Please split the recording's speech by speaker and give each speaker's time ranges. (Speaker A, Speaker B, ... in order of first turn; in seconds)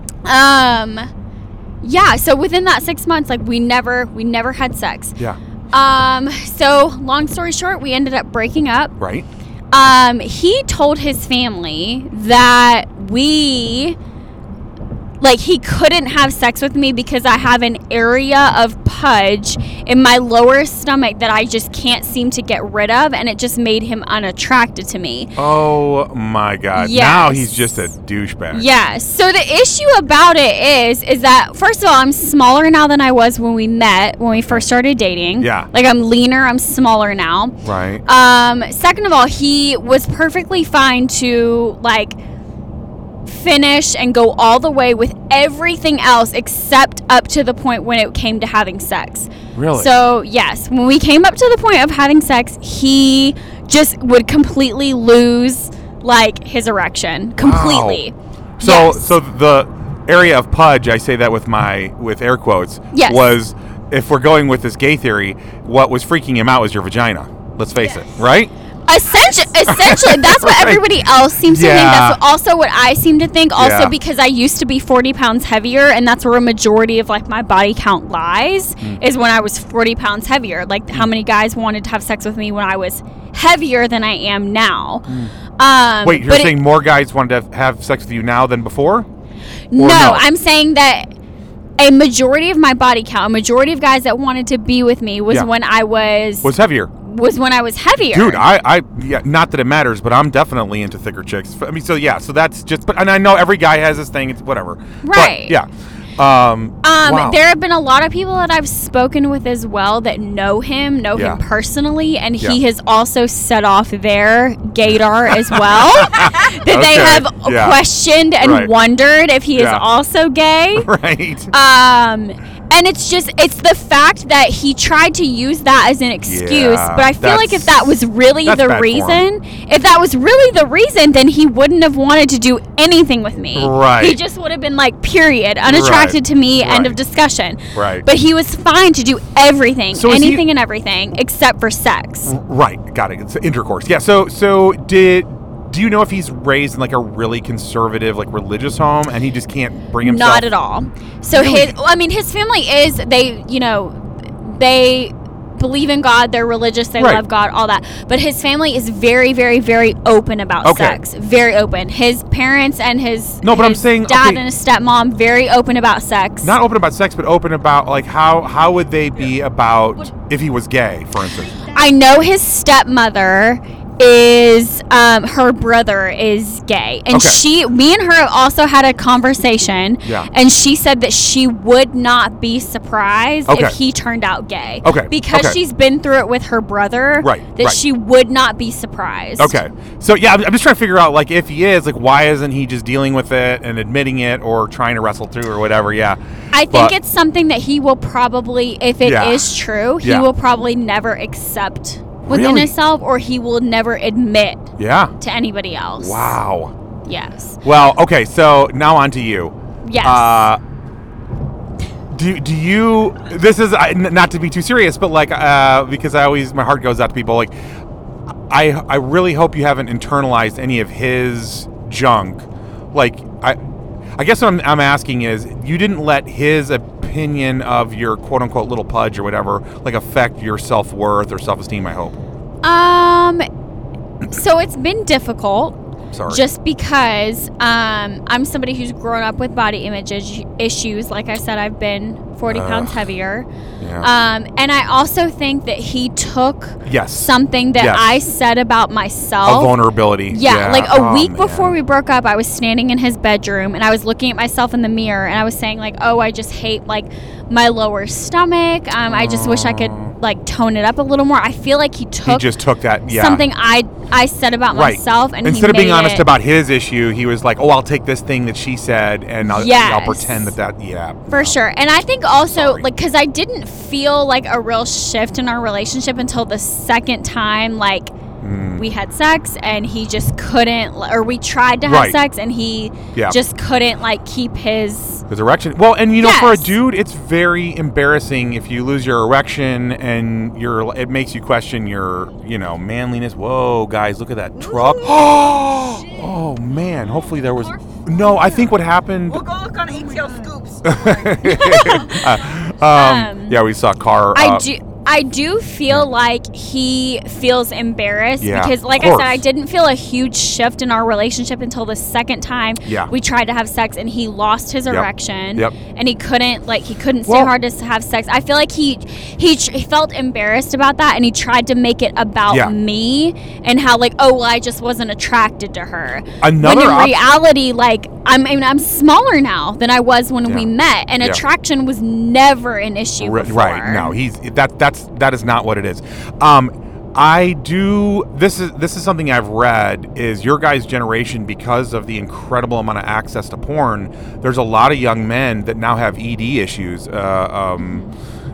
Speaker A: 0.2-1.1, 1.8-5.2, 5.7-8.9, 9.7-14.0, 15.2-25.3, 26.7-27.8, 28.5-37.5, 38.1-42.2, 43.3-59.1, 62.9-63.3, 68.9-85.1, 85.6-86.6, 89.7-91.1, 91.8-98.5, 105.0-105.6, 106.8-120.9, 121.5-142.3, 150.0-166.6, 171.7-189.6, 196.5-204.7, 205.2-206.4, 207.1-207.6, 209.8-210.5, 232.6-233.4, 234.3-243.5, 244.0-249.8, 250.3-262.5, 263.1-266.3, 269.4-270.5, 271.3-278.1, 278.8-285.2, 286.2-286.7, 301.4-303.6, 304.3-334.2, 347.8-348.1
Speaker B: 9.0-9.3, 25.4-28.6, 35.4-35.7, 37.6-38.0, 49.5-49.9, 57.4-58.0, 58.6-68.5, 69.3-70.9, 71.4-72.2, 73.6-74.0, 85.1-85.4, 86.0-89.1, 89.8-90.3, 96.4-96.9, 98.1-107.4, 111.1-111.4, 115.5-117.8, 118.4-118.7, 119.5-119.8, 120.8-121.5, 126.2-129.2, 133.6-134.2, 135.7-137.0, 137.8-138.1, 139.9-140.4, 142.2-150.5, 151.3-151.8, 157.0-157.2, 160.6-161.0, 163.4-164.4, 166.4-171.7, 177.1-177.4, 180.0-180.3, 183.5-183.8, 184.8-185.6, 187.2-187.8, 189.4-196.2, 199.0-200.3, 202.2-202.7, 204.8-205.1, 206.0-206.7, 207.6-210.6, 212.1-217.6, 218.5-223.6, 224.2-232.2, 236.1-236.4, 242.5-243.0, 243.8-244.1, 246.9-248.1, 249.4-251.8, 259.1-260.2, 262.2-263.4, 264.7-271.6, 272.5-272.9, 278.4-278.9, 281.9-282.2, 285.3-299.5, 300.8-304.7, 308.4-309.4, 312.9-313.1, 314.9-315.8, 317.3-317.5, 322.5-322.7, 326.4-327.2, 330.5-331.4, 333.2-348.1
Speaker C: 294.7-295.9, 297.4-298.7, 299.3-300.8